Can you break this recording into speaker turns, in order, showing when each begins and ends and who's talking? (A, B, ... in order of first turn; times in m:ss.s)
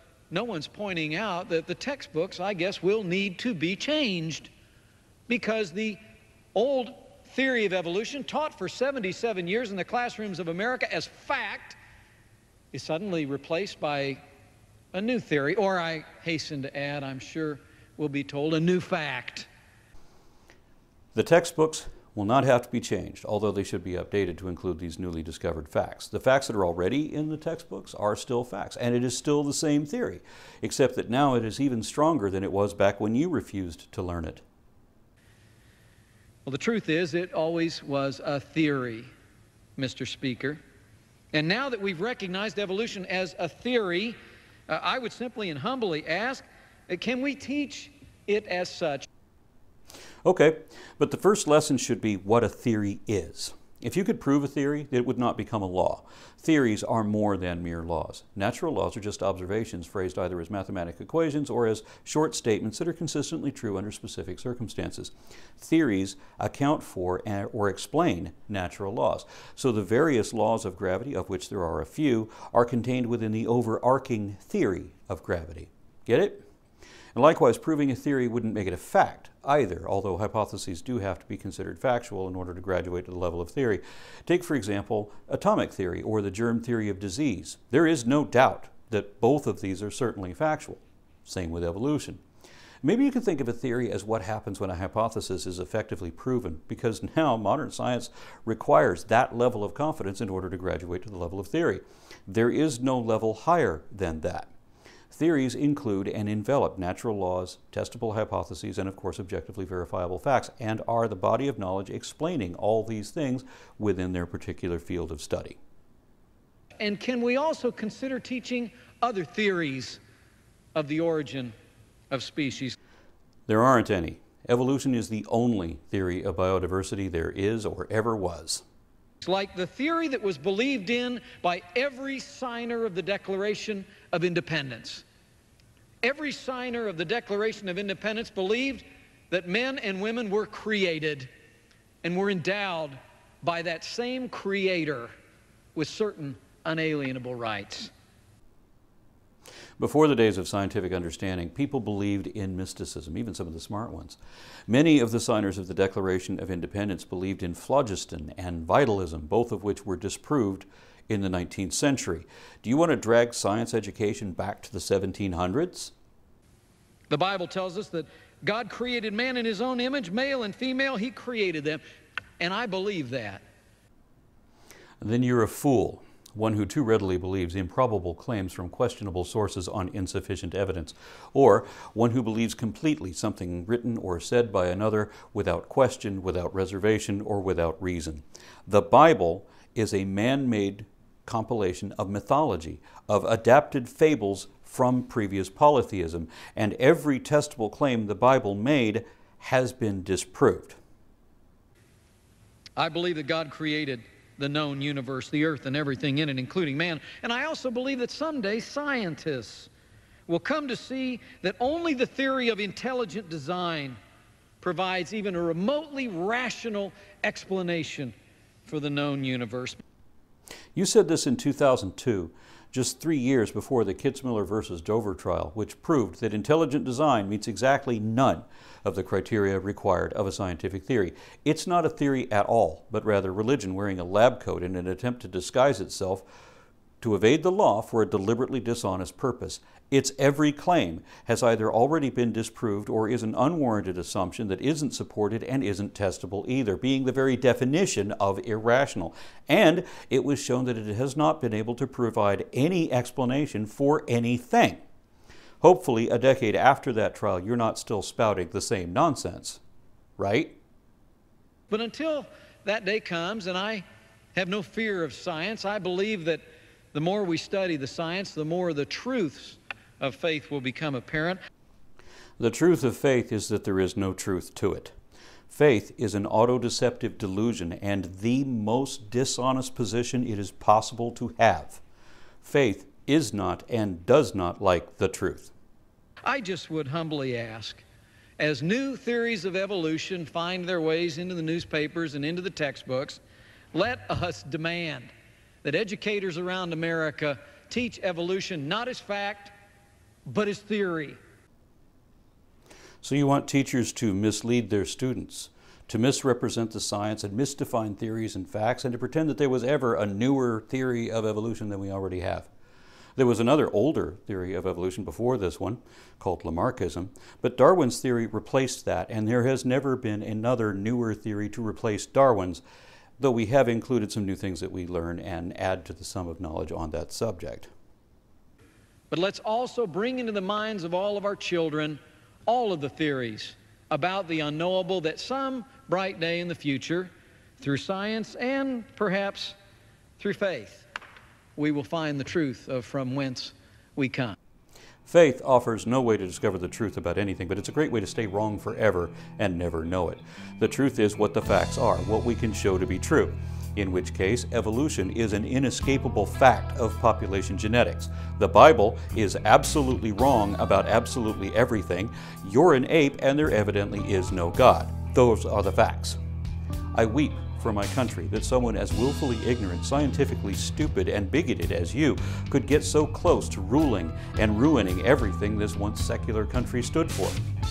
0:00.3-0:04.5 A
0:05.3-0:06.0 A
0:06.6-0:11.8 A
0:12.7-0:14.2 A
0:14.9-0:19.5 A
0:21.1-0:34.4 B
0:36.4-0:39.1 A
0:39.8-0:40.6 A
0:41.3-0:44.2 A
0:44.7-0:49.1 A
0:50.2-1:16.4 B
1:17.1-1:32.2 B
1:32.8-1:44.5 B
1:45.1-1:55.6 B
1:56.8-2:00.0 A
2:00.8-2:01.5 A
2:02.1-2:02.8 A
2:03.5-2:08.6 B
2:09.2-2:15.0 A
2:16.0-2:21.3 A
2:22.0-2:25.1 A
2:25.8-2:27.9 A
2:29.8-2:45.9 B
2:47.1-2:51.8 A
2:52.4-2:53.4 A
2:55.0-3:20.8 B
3:22.8-3:29.7 A
3:30.3-3:34.0 A
3:34.6-3:38.1 A
3:38.7-3:39.8 A
3:40.8-3:56.2 B
3:57.0-4:14.8 B
4:15.6-4:19.6 B
4:20.2-4:20.6 B
4:21.7-4:31.4 A
4:32.4-4:34.9 B
4:35.5-4:41.8 B
4:42.4-4:45.5 B
4:46.3-4:47.8 A
4:48.4-4:53.2 A
4:53.7-4:55.1 A
4:55.6-4:59.5 A
5:00.3-5:01.2 A
5:03.0-5:12.5 B
5:13.2-5:22.6 B
5:23.2-5:27.7 B
5:29.1-5:39.6 A
5:40.2-5:40.9 A
5:41.6-5:44.4 A
5:45.1-6:06.2 B
6:06.9-6:17.4 B